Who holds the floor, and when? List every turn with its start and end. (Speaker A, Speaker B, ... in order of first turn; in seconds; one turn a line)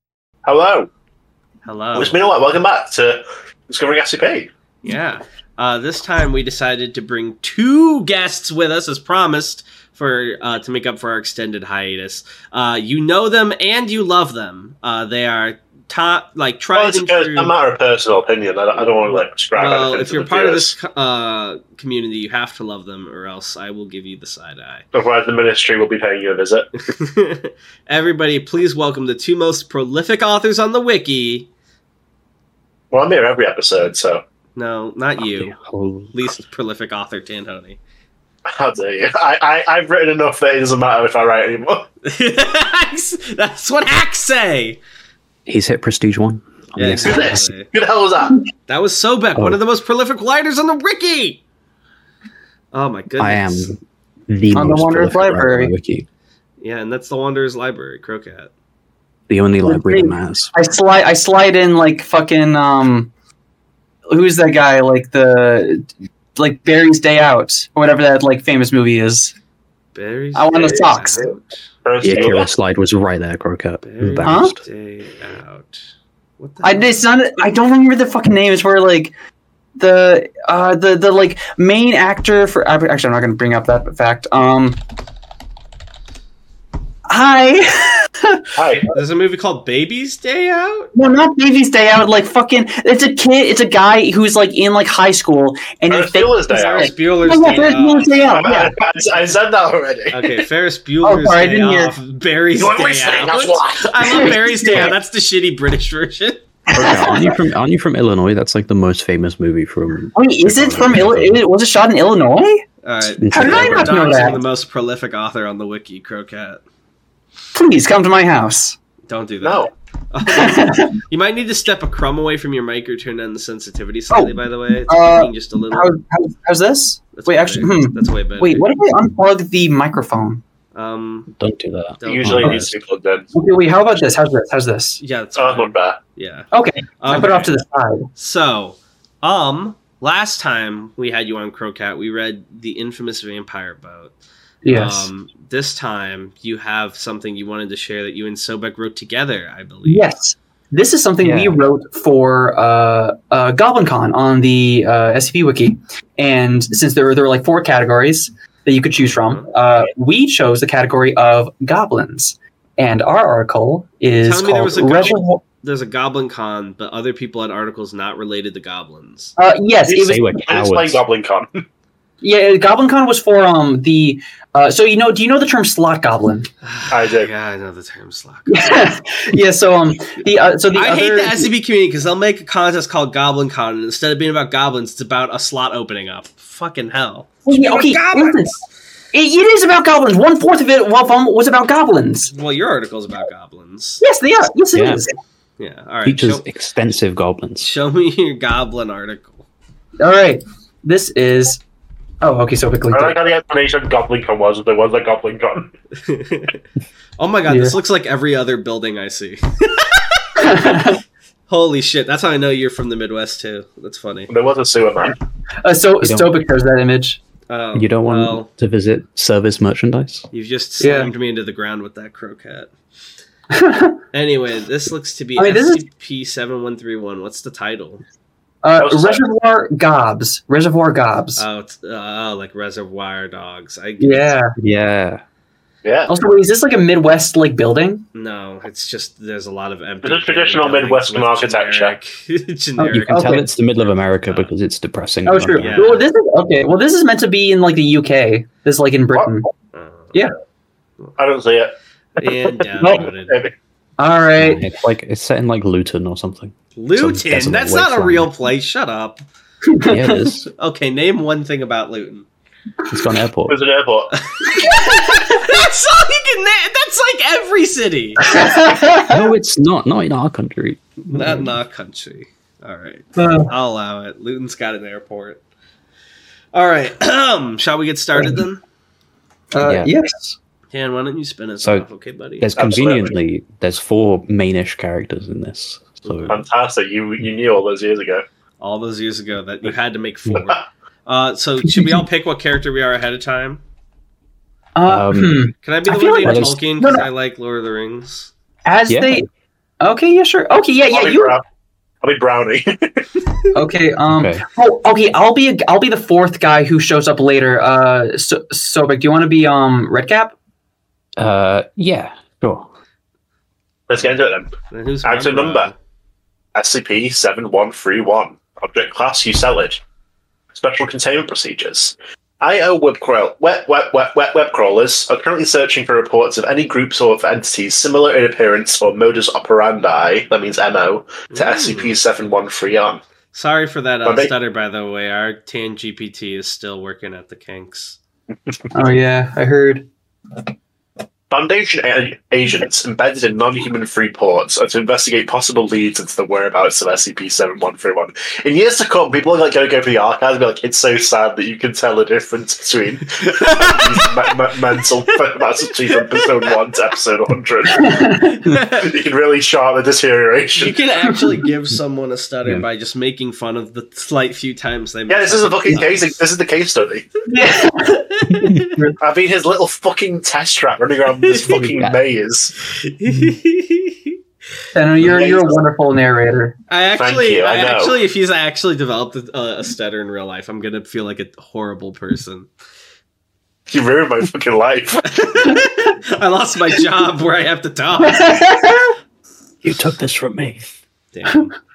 Speaker A: 0.4-0.9
Speaker B: 1.6-2.2
Speaker A: 1.9-4.5
Speaker B: 4.8-17.5
Speaker A: 16.7-20.7
Speaker B: 19.5-24.8
Speaker A: 24.9-26.7
Speaker B: 26.9-31.5
Speaker A: 32.9-34.2
Speaker B: 34.5-35.5
Speaker C: 35.2-36.3
Speaker B: 36.1-37.8
Speaker A: 38.5-41.9
Speaker B: 42.0-44.8
Speaker C: 45.5-47.5
Speaker B: 46.8-47.7
Speaker A: 47.0-48.4
Speaker B: 48.7-51.4
Speaker B: 52.7-53.7
Speaker C: 53.2-56.0
Speaker D: 54.5-55.7
Speaker B: 56.6-58.5
Speaker C: 59.3-60.5
Speaker D: 59.6-63.1
Speaker D: 64.1-69.3
Speaker B: 69.9-71.5
Speaker D: 70.3-71.3
Speaker A: 70.5-71.3
Speaker A: 71.8-72.5
Speaker C: 72.0-74.5
Speaker B: 73.8-75.8
Speaker D: 74.2-74.5
Speaker B: 76.4-76.9
Speaker D: 76.6-79.1
Speaker D: 79.8-84.8
Speaker D: 87.1-88.5
Speaker A: 88.5-88.9
Speaker B: 88.9-90.9
Speaker D: 90.9-98.7
Speaker A: 95.9-96.9
Speaker B: 96.5-98.3
Speaker A: 98.3-100.4
Speaker B: 100.1-106.4
Speaker D: 101.0-102.0
Speaker A: 102.5-104.4
Speaker D: 104.0-104.9
Speaker D: 106.7-107.3
Speaker C: 106.7-111.4
Speaker D: 110.1-112.6
Speaker B: 112.8-116.6
Speaker C: 113.2-114.0
Speaker D: 113.3-114.4
Speaker D: 117.5-118.8
Speaker B: 119.1-125.9
Speaker A: 119.4-119.7
Speaker D: 120.3-121.0
Speaker D: 124.1-130.4
Speaker B: 127.1-128.6
Speaker B: 130.7-131.3
Speaker C: 131.4-132.7
Speaker B: 132.0-132.7
Speaker A: 132.0-133.3
Speaker D: 133.3-135.0
Speaker B: 135.0-136.5
Speaker A: 135.3-136.0
Speaker D: 136.5-138.1
Speaker B: 137.0-137.5
Speaker B: 138.2-144.1
Speaker D: 144.6-145.1
Speaker B: 144.7-150.1
Speaker D: 149.8-165.4
Speaker C: 151.2-151.6
Speaker B: 159.1-159.4
Speaker B: 164.2-169.3
Speaker D: 169.4-170.3
Speaker A: 169.9-171.7
Speaker C: 169.9-171.0
Speaker D: 172.2-176.5
Speaker B: 176.6-178.9
Speaker A: 176.9-177.3
Speaker D: 178.5-181.5
Speaker B: 180.7-188.4
Speaker D: 187.5-188.6
Speaker D: 189.1-192.3
Speaker B: 192.3-194.0
Speaker D: 194.0-195.1
Speaker C: 194.7-195.0
Speaker B: 195.6-196.4
Speaker C: 196.0-197.7
Speaker B: 197.6-199.4
Speaker D: 200.0-201.6
Speaker D: 202.2-203.2
Speaker A: 202.9-205.7
Speaker B: 206.1-206.6
Speaker B: 207.2-210.9
Speaker D: 207.5-207.8
Speaker D: 210.4-211.0
Speaker B: 211.5-214.3
Speaker A: 214.3-215.2
Speaker D: 215.6-217.2
Speaker C: 216.0-216.3
Speaker B: 217.5-218.5
Speaker C: 217.7-220.3
Speaker B: 220.3-222.7
Speaker D: 220.8-221.1
Speaker D: 223.5-224.0
Speaker B: 224.1-228.0
Speaker D: 225.4-225.8
Speaker D: 228.6-231.4
Speaker A: 228.8-229.2
Speaker B: 231.4-234.4
Speaker D: 234.0-234.5
Speaker C: 234.6-235.2
Speaker A: 235.8-236.1
Speaker D: 236.1-238.0
Speaker B: 238.1-243.6
Speaker A: 240.0-241.9
Speaker D: 242.8-243.5
Speaker C: 242.9-245.9
Speaker D: 245.2-249.5
Speaker B: 245.5-246.1
Speaker B: 249.7-250.1
Speaker A: 251.2-253.5
Speaker B: 252.2-253.4
Speaker D: 254.0-254.6
Speaker C: 254.4-258.3
Speaker B: 256.8-259.2
Speaker D: 259.6-260.3
Speaker C: 259.8-260.5
Speaker B: 260.5-262.2
Speaker C: 262.9-263.6
Speaker A: 263.5-264.2
Speaker B: 264.2-268.4
Speaker D: 264.6-265.2
Speaker D: 268.2-269.2
Speaker C: 269.0-271.3
Speaker B: 271.1-275.4
Speaker D: 273.2-273.5
Speaker B: 276.5-278.6
Speaker D: 279.5-280.4
Speaker C: 279.6-279.9
Speaker B: 280.7-282.5
Speaker C: 281.6-281.9
Speaker C: 282.4-286.4
Speaker A: 282.6-283.1
Speaker A: 286.2-288.2
Speaker B: 288.6-293.6
Speaker D: 291.6-292.0
Speaker D: 294.7-297.1
Speaker C: 294.9-295.5
Speaker B: 295.6-298.3
Speaker C: 296.2-296.6
Speaker D: 298.6-299.2
Speaker C: 298.9-299.2
Speaker D: 299.8-301.4
Speaker A: 300.9-301.4
Speaker A: 302.0-303.1
Speaker D: 303.5-310.3
Speaker C: 304.1-304.4
Speaker C: 311.2-312.7
Speaker A: 313.9-314.5
Speaker B: 314.7-315.7
Speaker A: 315.0-315.7
Speaker A: 316.5-319.8
Speaker A: 320.5-333.0
Speaker B: 331.3-332.0
Speaker B: 333.3-338.0
Speaker A: 334.0-334.3
Speaker D: 338.7-339.9
Speaker A: 341.3-360.7
Speaker B: 353.4-354.1
Speaker B: 355.6-356.5
Speaker D: 357.7-358.4
Speaker B: 358.4-358.9
Speaker B: 360.6-366.2
Speaker A: 365.1-367.2
Speaker D: 367.3-369.0
Speaker B: 368.2-368.7
Speaker A: 369.0-372.5
Speaker B: 371.2-371.7
Speaker B: 372.6-374.2
Speaker D: 374.7-376.6
Speaker A: 375.0-375.6
Speaker B: 376.7-382.5
Speaker A: 376.9-378.0
Speaker A: 383.7-385.6
Speaker B: 385.1-388.4
Speaker D: 388.0-388.9
Speaker C: 389.6-390.6
Speaker B: 391.1-391.5